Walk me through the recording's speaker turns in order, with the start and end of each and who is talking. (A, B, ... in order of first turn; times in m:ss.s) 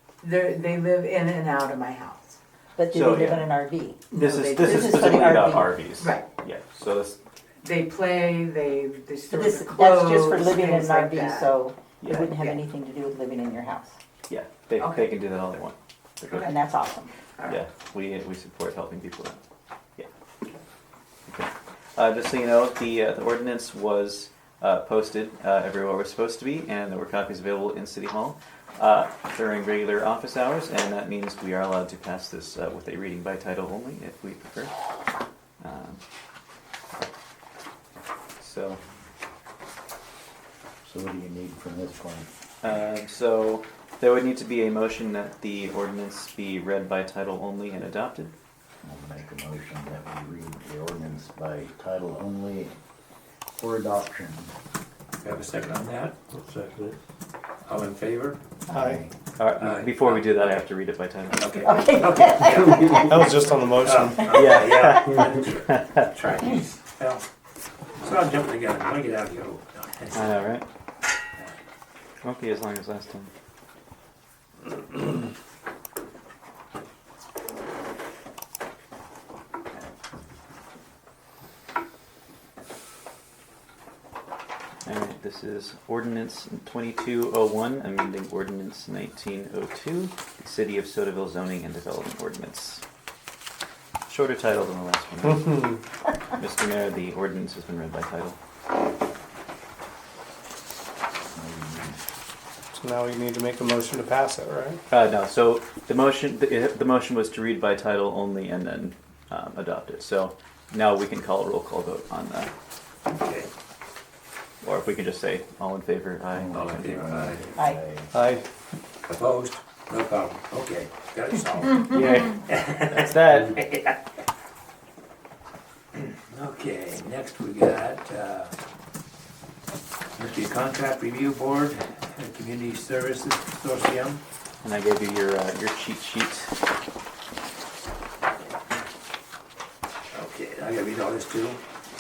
0:00.2-0:02.4 A
0:02.8-0:05.7 B
0:02.9-0:03.5 C
0:04.1-0:07.2 C
0:04.1-0:06.3 A
0:07.6-0:11.6 A
0:09.3-0:14.0 B
0:12.0-0:12.3 C
0:12.3-0:12.6 A
0:14.3-0:16.5 C
0:14.8-0:15.1 A
0:16.3-0:17.1 B
0:17.4-0:17.6 A
0:17.5-0:19.4 C
0:21.3-0:34.7 C
0:35.6-0:36.0 C
0:38.4-0:38.8 C
0:40.8-0:42.3 D
0:42.6-0:48.4 C
0:48.8-0:52.8 D
0:53.5-0:54.5 D
0:55.2-0:57.0 E
0:57.6-0:58.4 E
0:58.7-0:59.1 D
0:58.7-0:59.0 F
0:59.4-1:01.7 C
0:59.6-1:00.7 E
1:01.3-1:07.2 E
1:01.6-1:03.1 B
1:02.9-1:04.4 F
1:04.3-1:06.1 C
1:08.0-1:10.4 E
1:10.1-1:10.6 C
1:12.2-1:13.3 C
1:24.8-1:32.8 C
1:34.1-1:35.6 C
1:35.2-1:35.8 F
1:36.3-1:38.4 C
1:41.3-1:42.0 D
1:42.7-1:44.8 F
1:44.9-1:52.5 C
1:53.1-1:53.5 E
1:54.6-1:57.0 C
1:56.4-1:58.1 D
1:56.5-1:57.5 E
1:58.1-1:58.4 F
1:59.0-2:04.0 E
2:01.9-2:03.6 C
2:06.0-2:08.6 E
2:10.2-2:14.2 E
2:14.6-2:16.6 C
2:20.1-2:21.6 E